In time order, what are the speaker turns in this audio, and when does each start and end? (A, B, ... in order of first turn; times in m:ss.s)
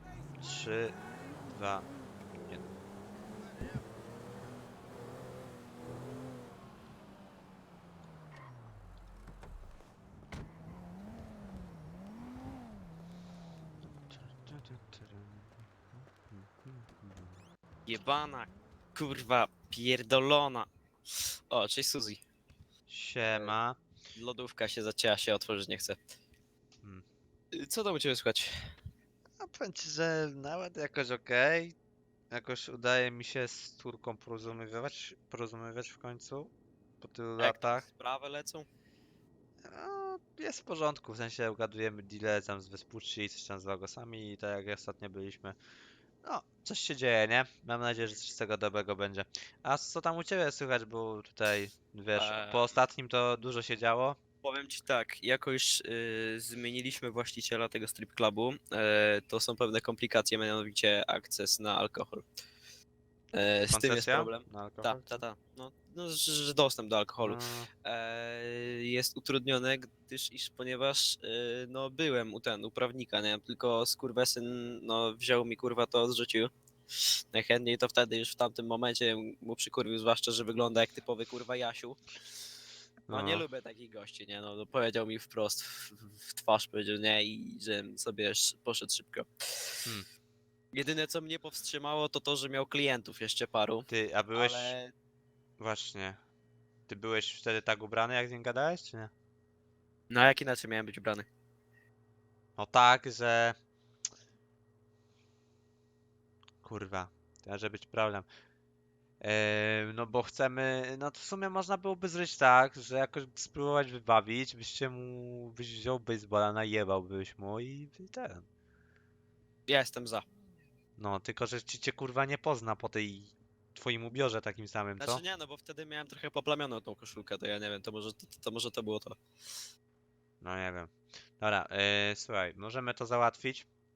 0:00.4-0:02.7 A
0:14.1-0:15.5 A
0:16.3-0:17.4 A
0:17.8-0:20.7 B
0:21.5-0:22.2 B
0:22.9-0:23.8 A
0:23.3-0:23.5 B
0:24.2-0:26.0 B
0:27.5-0:28.5 B
0:29.4-0:31.7 A
0:32.3-0:37.8 A
0:37.4-0:38.6 B
0:39.6-0:45.6 A
0:46.2-0:54.2 A
0:52.2-0:52.8 B
0:54.4-1:02.2 B
1:03.3-1:22.0 B
1:03.7-1:05.2 A
1:07.2-1:07.7 A
1:23.1-1:23.4 A
1:23.1-1:29.3 B
1:30.7-1:34.9 B
1:33.9-1:34.7 A
1:35.6-1:36.2 A
1:36.9-1:39.1 A
1:40.1-1:41.2 B
1:42.6-1:43.5 A
1:46.6-1:48.2 A
1:49.2-1:58.4 A
1:59.7-2:00.2 B
2:01.0-2:05.2 A
2:05.0-2:09.2 B
2:10.4-2:13.7 A